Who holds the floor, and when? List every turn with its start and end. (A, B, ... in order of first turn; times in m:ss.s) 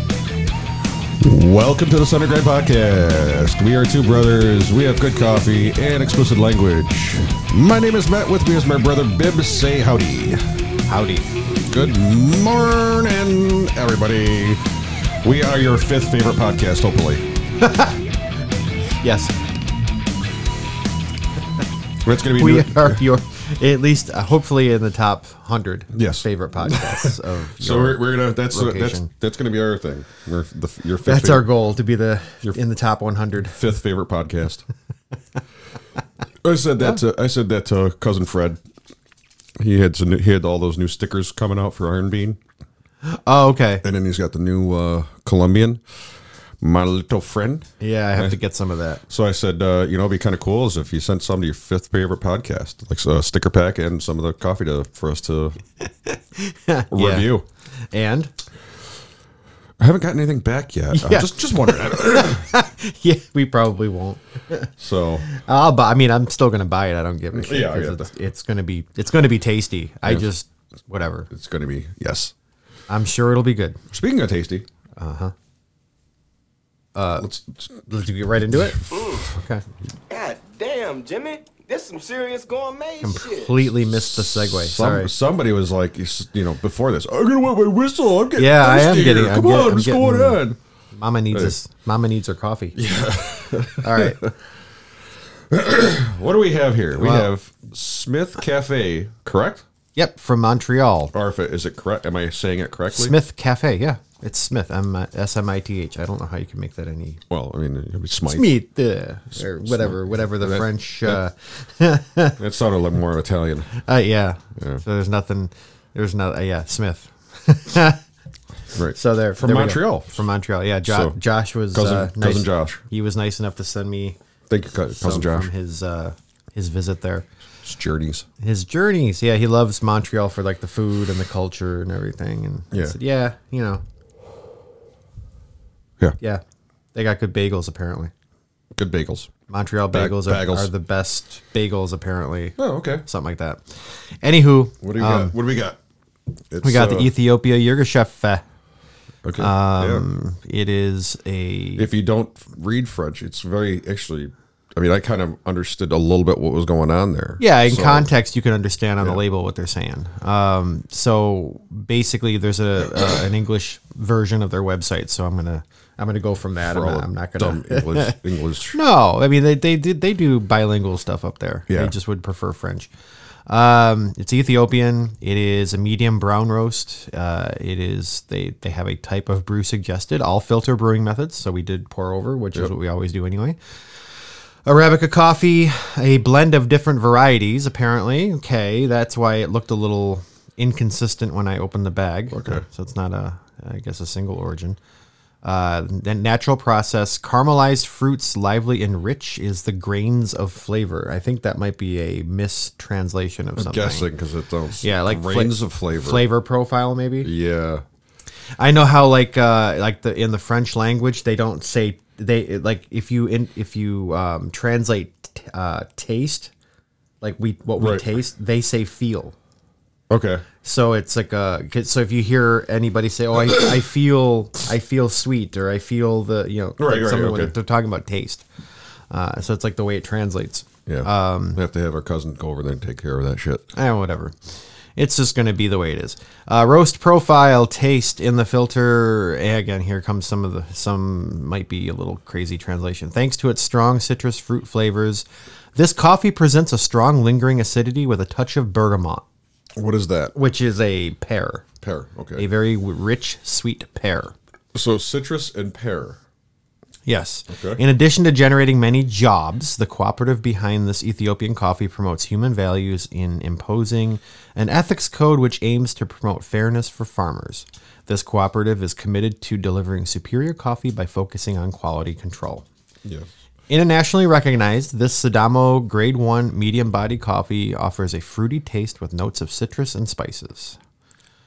0:01.2-0:10.4 A
0:10.9-0:11.2 B
0:11.6-0:17.2 A
0:17.6-0:18.0 B
0:19.0-0:19.3 B
0:22.0-0:23.0 A
0:22.4-0:29.1 B
0:25.9-0:31.4 A
0:31.0-0:33.6 B
0:33.4-0:34.6 A
0:36.4-0:38.6 A
0:39.6-0:42.4 A
0:43.0-0:43.8 B
0:43.8-0:45.8 A
0:46.6-0:48.4 A
0:47.8-0:49.0 B
0:49.1-0:55.6 A
0:56.0-0:57.3 B
0:56.9-0:57.4 A
0:57.9-0:58.3 B
0:59.8-1:02.5 A
1:00.9-1:04.7 B
1:04.8-1:05.2 A
1:05.2-1:11.3 B
1:07.3-1:08.1 A
1:11.3-1:12.3 A
1:12.9-1:13.8 B
1:13.9-1:14.6 A
1:15.0-1:15.3 B
1:16.9-1:17.3 B
1:17.2-1:17.8 A
1:17.9-1:19.6 B
1:18.5-1:19.0 A
1:18.9-1:19.3 C
1:20.1-1:23.6 C
1:23.0-1:25.1 B
1:23.8-1:30.6 A
1:28.4-1:30.4 B
1:30.9-1:32.8 B
1:32.7-1:34.3 A
1:33.8-1:34.2 B
1:35.5-1:39.6 A
1:37.0-1:37.3 B
1:39.9-1:41.1 B
1:41.1-1:43.1 A
1:42.9-1:47.2 B
1:47.3-1:48.5 A
1:48.3-1:52.4 B
1:49.3-1:51.2 A
1:52.4-1:53.7 A
1:53.7-1:58.0 B
1:54.6-1:54.8 A
1:58.7-2:00.2 A
1:58.9-2:04.2 B
2:00.9-2:01.2 A
2:01.7-2:02.8 A
2:04.5-2:05.5 A
2:05.0-2:07.3 B
2:07.6-2:08.3 A
2:08.4-2:13.8 B
2:12.7-2:13.0 A
2:16.9-2:18.1 B
2:18.8-2:19.3 A
2:19.5-2:25.3 B
2:19.9-2:20.7 A
2:22.6-2:23.0 A
2:24.8-2:25.8 A
2:26.5-2:27.1 A
2:26.6-2:28.4 B
2:29.2-2:30.1 A
2:29.4-2:31.8 B
2:31.8-2:38.1 A
2:37.4-2:48.2 B
2:46.6-2:48.8 A
2:48.7-2:52.9 B
2:51.7-2:51.9 A
2:53.5-3:03.7 B
3:04.6-3:14.8 B
3:12.3-3:12.6 A
3:15.4-3:24.1 B
3:23.6-3:26.2 A
3:24.8-3:27.3 B
3:27.2-3:27.8 A
3:28.6-3:36.5 B
3:37.2-3:39.4 B
3:37.8-3:38.0 A
3:40.1-3:40.4 A
3:40.6-3:48.4 B
3:46.8-3:47.5 A
3:49.1-3:51.6 B
3:50.9-3:53.7 A
3:53.7-4:09.2 B
4:09.8-4:10.3 A
4:10.3-4:11.7 B
4:11.8-4:12.4 A
4:12.4-4:14.3 B
4:14.7-4:16.2 A
4:17.0-4:32.6 B
4:17.5-4:17.8 A
4:33.7-4:40.8 B